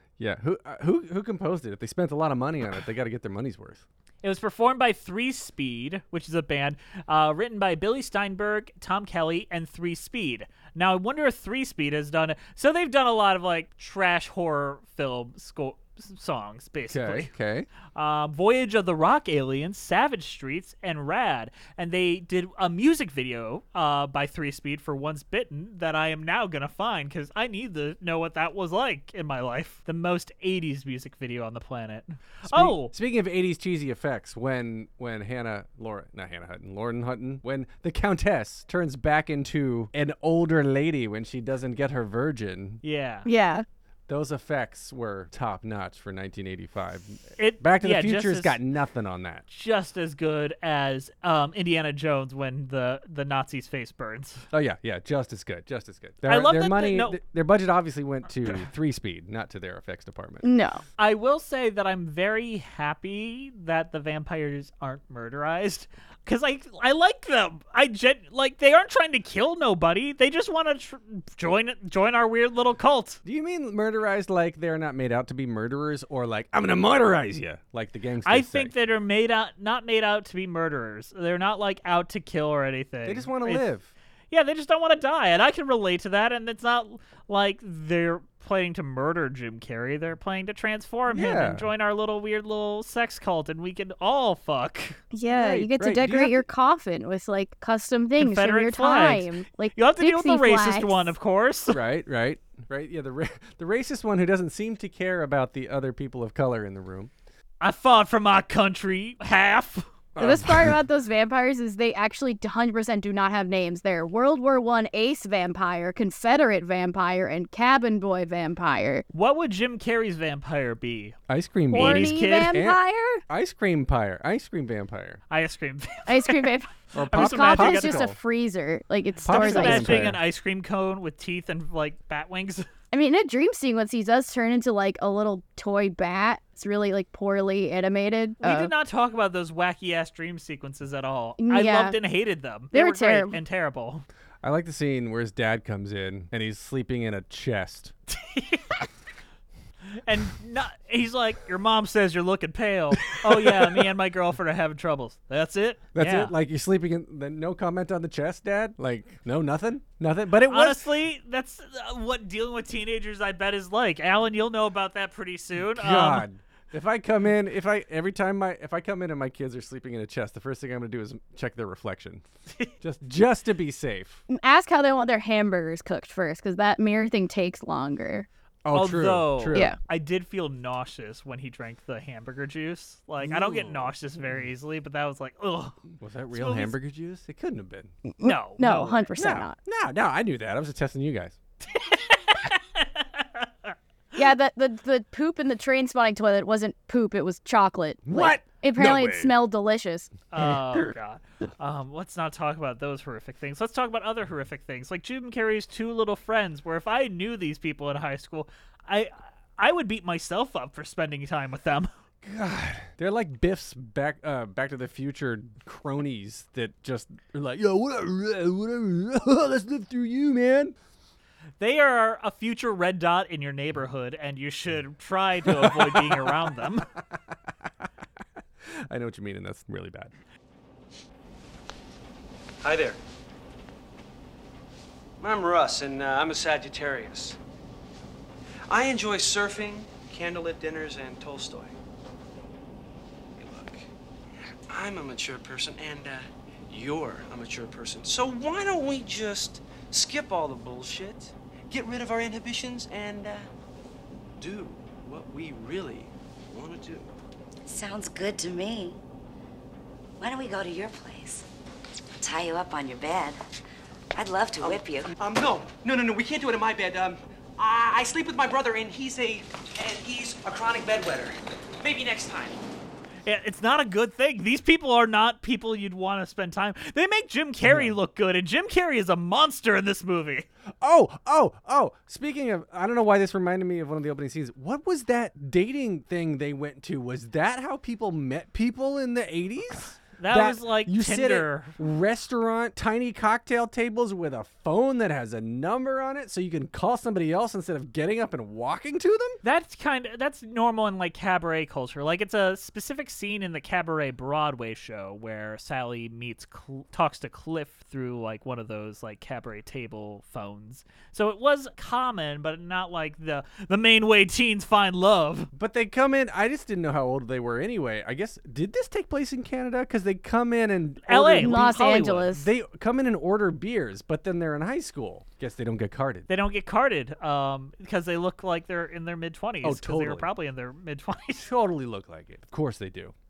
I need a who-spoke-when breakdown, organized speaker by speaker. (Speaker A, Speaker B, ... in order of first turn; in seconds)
Speaker A: 0.2-3.8, 16.9-17.7, 32.5-42.8, 44.1-49.5, 54.5-60.5, 73.2-78.7, 83.0-83.9, 91.1-91.7, 95.3-96.4, 101.7-107.1, 110.2-110.8, 121.3-125.2, 126.9-128.2, 129.2-130.2, 144.4-147.9, 153.1-153.7, 155.9-160.8, 165.6-172.2, 172.8-174.2, 178.7-179.7, 183.2-183.9, 186.0-187.9, 189.2-191.4, 198.1-199.3, 212.2-220.8, 225.5-226.4, 228.9-230.1, 277.6-278.0, 280.8-299.4, 315.5-326.3, 329.6-330.3, 331.4-333.1
Speaker B: 4.2-17.3, 17.9-32.9, 42.8-43.3, 47.4-48.6, 49.5-54.4, 56.2-57.2, 58.4-58.7, 61.0-73.2, 78.2-83.7, 84.3-95.0, 98.2-101.8, 107.6-109.9, 119.1-121.2, 121.7-122.6, 125.3-128.0, 129.3-132.7, 138.4-144.1, 148.1-148.8, 150.1-156.3, 160.5-166.3, 178.7-185.8, 186.3-186.7, 188.2-189.0, 191.8-193.7, 200.3-211.9, 221.6-226.8, 273.2-280.5, 290.2-291.8, 299.4-315.5, 321.1-322.4, 326.3-331.5
Speaker C: 43.3-43.6, 60.4-60.8, 95.1-101.1, 110.2-119.0, 121.7-123.2, 126.1-130.1, 132.9-138.7, 141.4-142.0, 142.7-143.4, 174.3-178.3, 188.1-189.6, 194.2-200.1, 321.4-322.5
Speaker D: 232.6-233.0, 235.2-237.4, 238.7-241.8, 243.4-243.9, 244.6-253.5, 254.4-257.1, 264.6-272.6
Speaker E: 257.7-259.0, 260.2-261.4, 262.2-263.4, 264.1-265.1